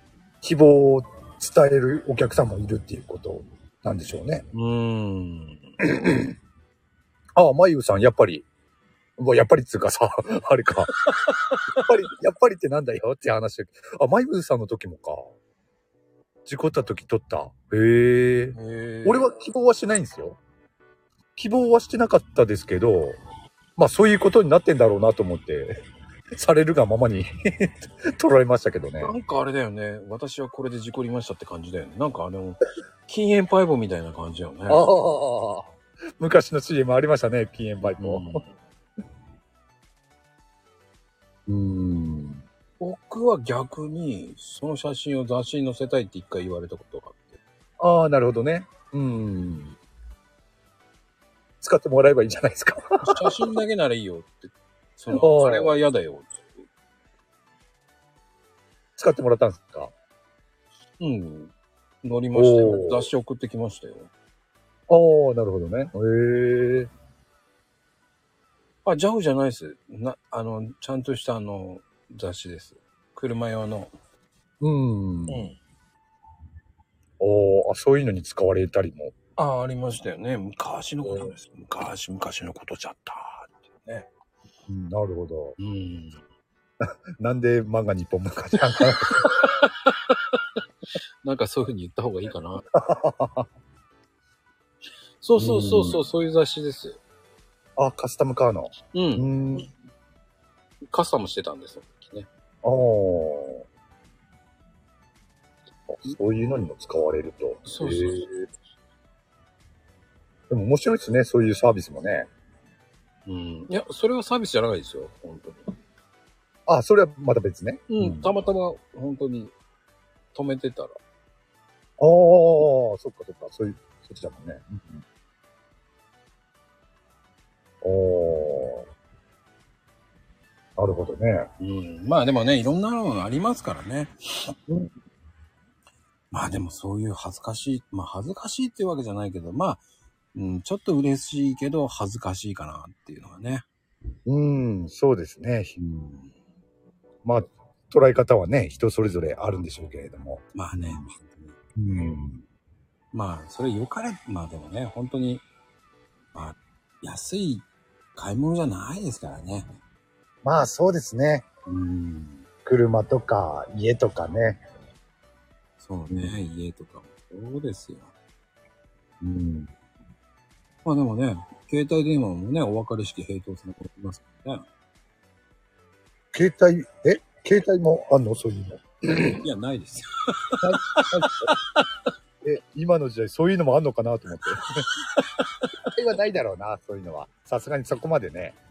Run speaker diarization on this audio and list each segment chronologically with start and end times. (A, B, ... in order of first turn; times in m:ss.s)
0:00.4-0:04.5 A
0:04.5-0:05.7 B
0:05.8-0:06.3 A
0:07.4-0:08.5 A
0:09.2-0:10.9 A
0:11.1-0:11.8 B
0:11.7-0:15.3 A
0:16.5-0:20.4 A
0:18.5-0:19.3 B
0:21.4-0:23.2 A
0:23.8-0:25.8 A
0:26.4-0:29.1 A
0:29.0-0:34.9 B
0:34.7-0:38.4 A
0:37.8-0:38.5 B
0:41.5-0:42.4 A
0:42.8-0:47.4 B
0:47.8-0:49.8 A
0:51.6-0:53.4 A
0:53.0-0:56.5 B
0:55.1-0:55.8 A
0:59.0-0:59.9 A
1:01.0-1:04.1 B
1:02.3-1:03.1 A
1:04.9-1:06.9 A
1:08.8-1:13.9 B
1:14.6-1:15.5 A
1:15.3-1:15.6 B
1:17.2-1:19.1 A
1:19.4-1:24.1 B
1:24.7-1:25.6 A
1:25.6-1:26.2 B
1:26.8-1:29.4 A
1:28.8-1:30.4 B
1:31.2-1:32.7 B
1:32.7-1:33.5 A
1:35.2-1:37.0 B
1:35.4-1:36.0 A
1:37.8-1:39.7 A
1:38.9-1:39.3 B
1:40.9-1:42.3 B
1:42.6-1:43.6 A
1:45.9-1:48.3 A
1:47.6-1:48.3 B
1:50.5-1:52.3 A
1:53.3-1:55.7 B
1:56.7-1:58.3 A
1:57.9-1:59.5 B
2:00.3-2:01.0 B
2:02.0-2:05.0 A
2:07.8-2:08.9 A
2:10.8-2:11.5 A
2:11.6-2:14.5 B
2:16.3-2:19.8 B
2:20.3-2:23.7 B
2:24.3-2:25.8 A
2:27.2-2:31.0 A
2:30.5-2:31.6 B
2:31.8-2:32.4 A
2:33.1-2:35.4 B
2:36.3-2:39.7 B
2:40.4-2:41.4 A
2:41.7-2:42.5 B
2:42.7-2:44.6 A
2:45.8-2:48.1 B
2:46.1-2:46.4 A
2:49.2-2:49.7 A
2:50.8-2:54.7 B
2:56.3-2:59.4 A
2:59.4-3:01.8 B
3:00.6-3:01.5 A
3:02.4-3:04.9 A
3:05.2-3:05.7 B
3:05.8-3:08.6 A